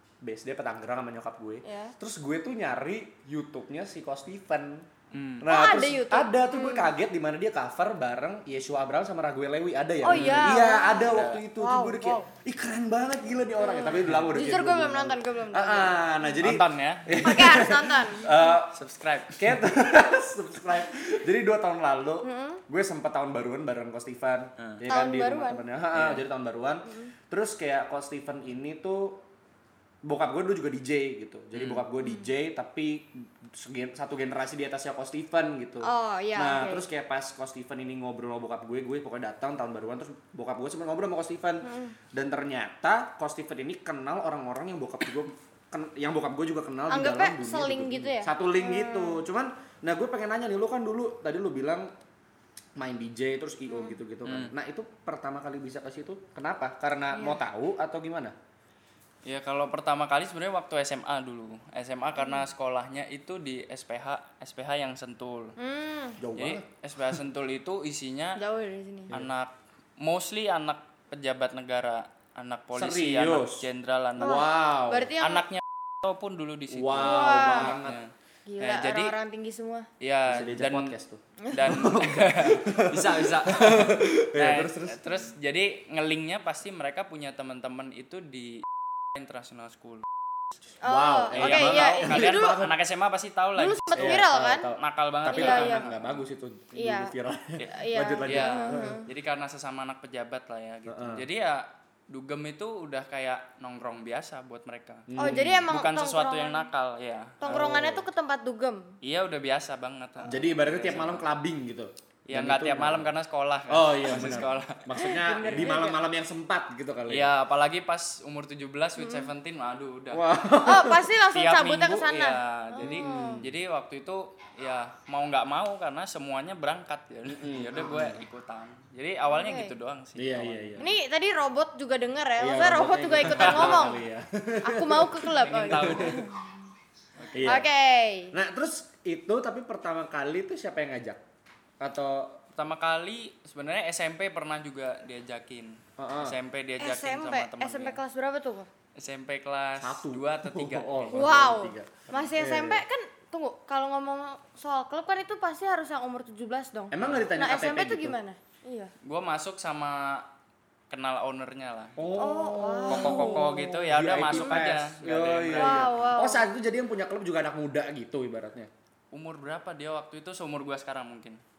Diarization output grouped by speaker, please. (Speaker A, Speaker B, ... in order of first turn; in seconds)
Speaker A: 0.2-4.8, 5.4-18.8, 19.3-29.2, 30.0-51.9, 52.8-58.3, 66.2-66.7, 72.7-73.7, 74.2-75.1, 76.7-78.0, 80.3-85.0, 90.8-92.7, 93.9-99.0, 100.9-101.2, 105.1-105.7, 107.4-108.0, 110.2-113.1, 113.7-117.3, 120.1-121.1, 122.8-123.5, 127.3-128.2, 130.2-130.9, 132.4-136.2, 137.3-137.6, 138.3-141.2, 141.8-142.4, 146.0-146.3, 149.8-152.8, 156.9-158.2, 162.0-168.7
Speaker B: 1.6-1.9, 5.4-6.9, 10.0-12.3, 13.6-16.3, 17.2-18.4, 22.2-22.6, 24.9-25.6, 26.9-27.1, 32.0-32.3, 35.8-36.8, 41.6-41.9, 46.9-49.2, 53.7-54.0, 57.1-57.4, 62.1-62.5, 65.6-66.2, 68.4-69.1, 74.2-75.5, 77.0-77.7, 78.5-79.9, 81.4-81.8, 90.8-92.6, 93.6-94.7, 95.3-95.9, 96.8-99.1, 105.2-106.7, 107.4-108.9, 110.2-110.5, 115.0-116.0, 119.0-119.3, 120.6-123.5, 129.3-129.8, 130.8-134.0, 134.6-136.7, 137.4-138.3, 146.8-148.7, 151.1-158.9, 162.1-163.6, 164.2-164.8, 165.6-166.4
Speaker C: 5.1-5.4, 10.1-11.4, 16.4-17.2, 18.4-19.6, 25.9-26.2, 31.5-31.8, 54.2-54.5, 59.2-65.5, 66.4-68.4, 69.1-74.5, 75.2-79.1, 80.0-81.0, 81.5-90.1, 91.3-96.2, 98.2-107.4, 109.0-111.2, 112.3-115.8, 117.1-120.2, 121.3-130.9, 133.2-133.9, 135.4-136.2, 137.2-137.5, 142.5-148.0, 148.9-151.2, 157.0-157.2, 159.0-160.2, 160.9-162.0, 162.9-166.0, 169.1-171.4